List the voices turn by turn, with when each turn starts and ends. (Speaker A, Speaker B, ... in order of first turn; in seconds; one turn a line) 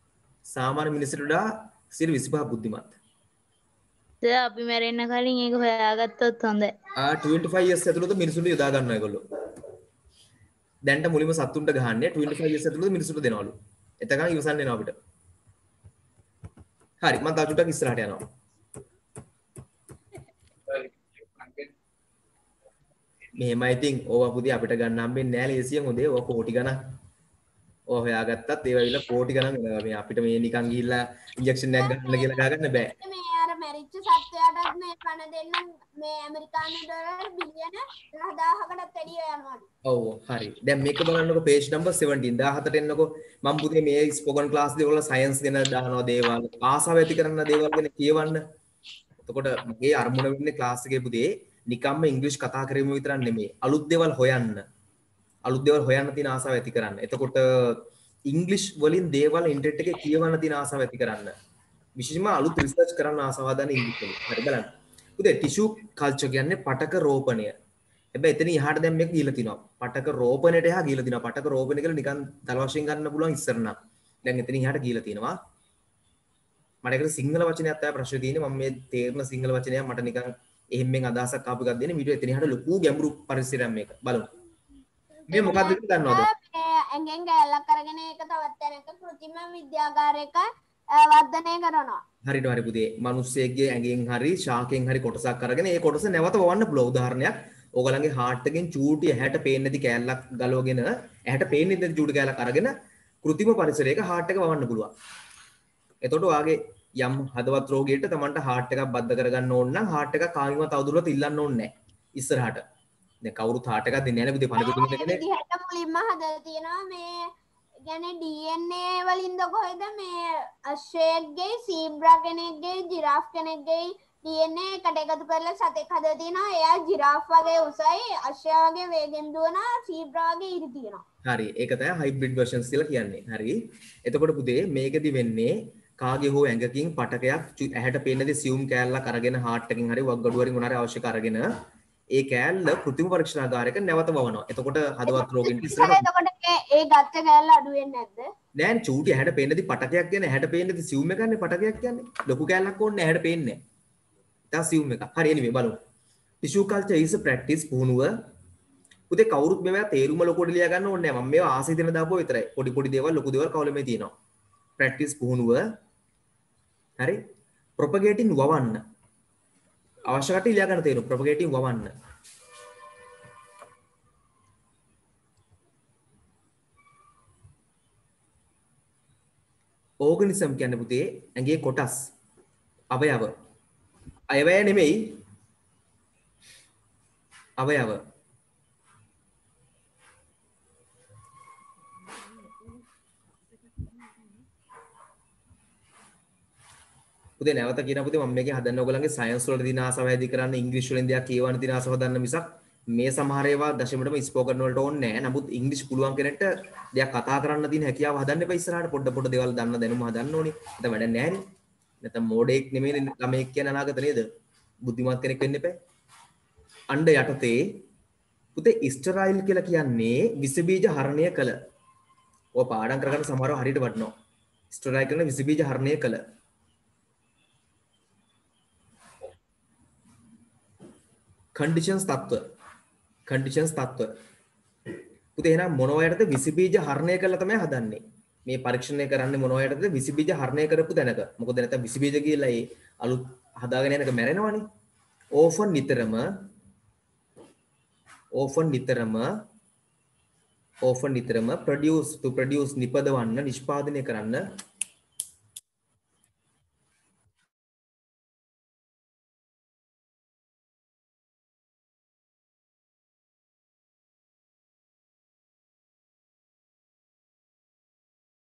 Speaker A: 0.5-3.0
Speaker B: 4.2-6.7
Speaker A: 7.0-9.2
Speaker A: 10.9-14.9
Speaker A: 17.0-18.2
Speaker A: 23.4-26.8
Speaker A: 27.9-32.9
Speaker C: 31.8-39.7
Speaker A: 39.9-48.4
Speaker A: 49.2-54.6
Speaker A: 55.5-61.3
Speaker A: 62.0-67.5
Speaker A: 68.2-75.4
Speaker A: 76.8-84.3
Speaker A: 85.3-86.3
Speaker C: 85.3-92.0
Speaker A: 92.2-104.9
Speaker A: 106.0-112.6
Speaker A: 113.2-115.2
Speaker C: 114.6-117.3
Speaker C: 117.8-131.0
Speaker A: 131.2-141.5
Speaker A: 142.1-146.1
Speaker C: 145.1-148.3
Speaker A: 148.6-153.6
Speaker A: 154.5-155.8
Speaker A: 156.4-158.1
Speaker A: 159.1-164.1
Speaker A: 164.8-165.6
Speaker A: 167.8-168.8
Speaker A: 170.1-171.9
Speaker A: 180.0-182.1
Speaker A: 182.9-183.3
Speaker A: 184.3-185.2
Speaker A: 187.6-188.0
Speaker A: 197.4-211.4
Speaker A: 212.0-214.3
Speaker A: 214.8-215.8
Speaker A: 216.9-217.8
Speaker A: 218.6-221.6
Speaker A: 222.6-224.1
Speaker A: 224.7-226.2
Speaker A: 231.6-232.4
Speaker A: 233.3-234.1
Speaker A: 235.4-244.7
Speaker A: 245.4-246.2
Speaker A: 248.3-249.3
Speaker A: 250.8-254.4